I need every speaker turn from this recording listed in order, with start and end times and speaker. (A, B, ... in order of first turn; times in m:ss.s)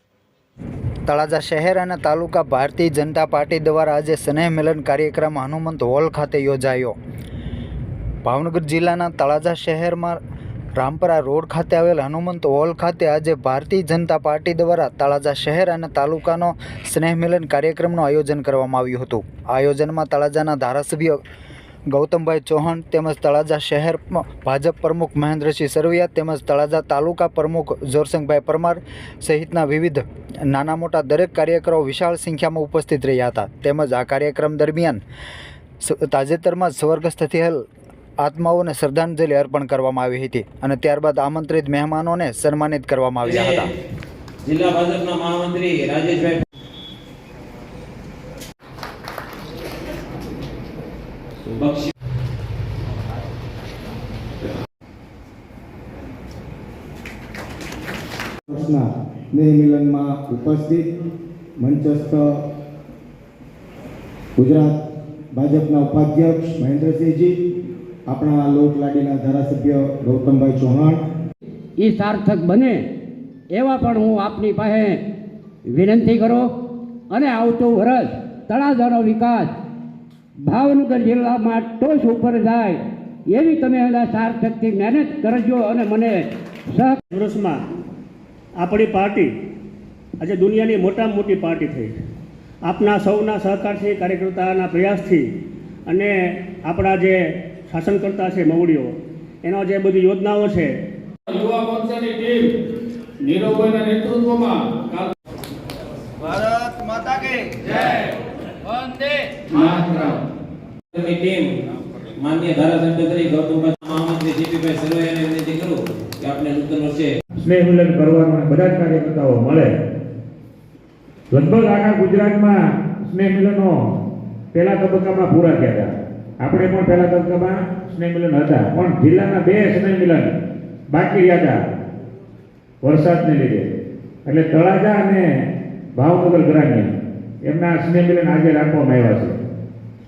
0:01.1-0:07.0 A
0:08.2-0:10.2 A
0:10.8-0:21.2 A
0:21.9-0:35.0 A
0:35.8-0:37.6 A
0:38.2-0:43.7 A
0:43.2-0:43.7 B
0:44.4-0:46.4 B
0:51.5-0:51.9 B
0:58.5-1:00.9 C
1:01.6-1:02.3 C
1:04.4-1:04.8 C
1:05.3-1:07.4 C
1:08.1-1:11.0 C
1:11.8-1:12.8 D
1:13.5-1:15.0 D
1:15.7-1:16.5 D
1:17.1-1:19.5 D
1:20.4-1:27.0 D
1:27.1-1:27.6 E
1:28.6-1:29.3 E
1:30.2-1:32.0 E
1:32.6-1:35.3 E
1:35.9-1:40.8 E
1:41.3-1:42.4 F
1:43.3-1:44.1 F
1:49.7-1:50.0 F
1:50.9-1:51.6 B
1:52.2-1:57.1 B
1:57.4-1:59.7 G
2:01.3-2:03.8 G
2:04.5-2:10.3 G
2:10.9-2:11.6 G
2:12.8-2:13.7 G
2:14.3-2:15.2 G
2:16.0-2:16.9 G
2:17.4-2:19.4 G